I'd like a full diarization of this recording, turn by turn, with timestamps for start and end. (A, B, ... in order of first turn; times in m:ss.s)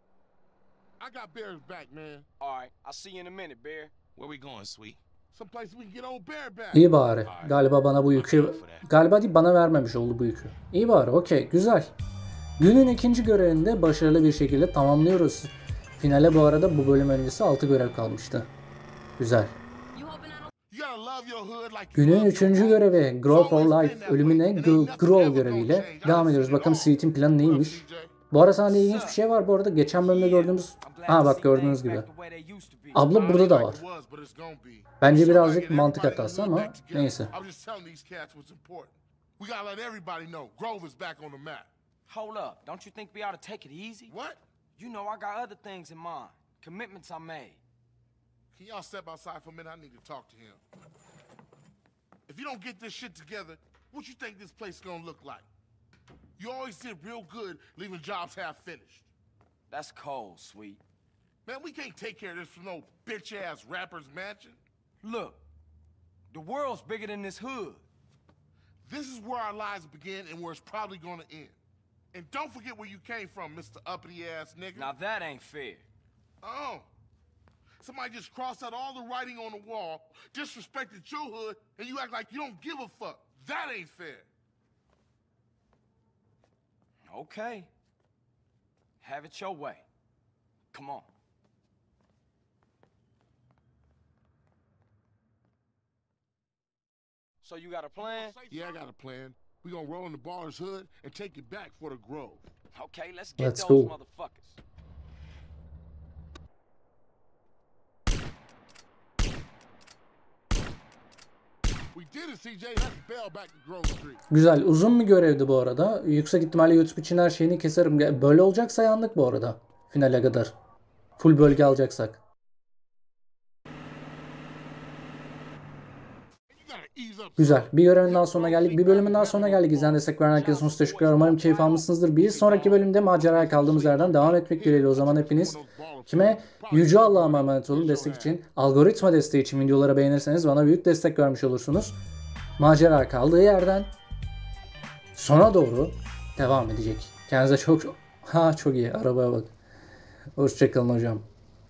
0:01.0-0:02.3 A
0:02.4-0:03.9 B
0:04.2-0:05.0 C
0:05.3-0:06.9 A
0:06.7-0:11.9 D
0:07.2-0:08.9 C
0:12.6-0:18.5 D
0:19.2-0:19.6 D
0:20.7-0:28.1 A
0:21.9-0:32.1 D
0:28.6-0:29.2 B
0:30.0-0:33.1 B
0:32.9-0:33.8 D
0:33.1-0:41.7 A
0:35.0-0:37.3 D
0:42.1-0:44.1 B
0:44.1-0:44.4 A
0:44.8-0:47.6 B
0:48.5-0:50.6 A
0:52.3-0:55.5 A
0:56.4-0:59.1 A
0:59.7-1:00.8 B
1:01.4-1:04.6 A
1:05.0-1:05.4 B
1:06.3-1:07.8 B
1:08.8-1:11.6 A
1:12.1-1:14.9 A
1:14.7-1:15.8 B
1:16.4-1:16.9 A
1:17.8-1:24.3 A
1:27.1-1:27.7 B
1:29.0-1:29.8 B
1:30.7-1:31.1 B
1:37.4-1:38.4 B
1:38.5-1:42.5 A
1:42.7-1:44.6 B
1:43.4-1:43.9 D
1:51.9-1:54.2 A
1:54.3-2:00.5 D
2:01.2-2:02.2 D
2:06.5-2:10.0 A
2:07.4-2:22.0 D
2:09.2-2:12.8 B
2:13.1-2:18.4 A
2:22.6-2:23.9 D
2:25.2-2:29.5 D
2:30.4-2:31.3 D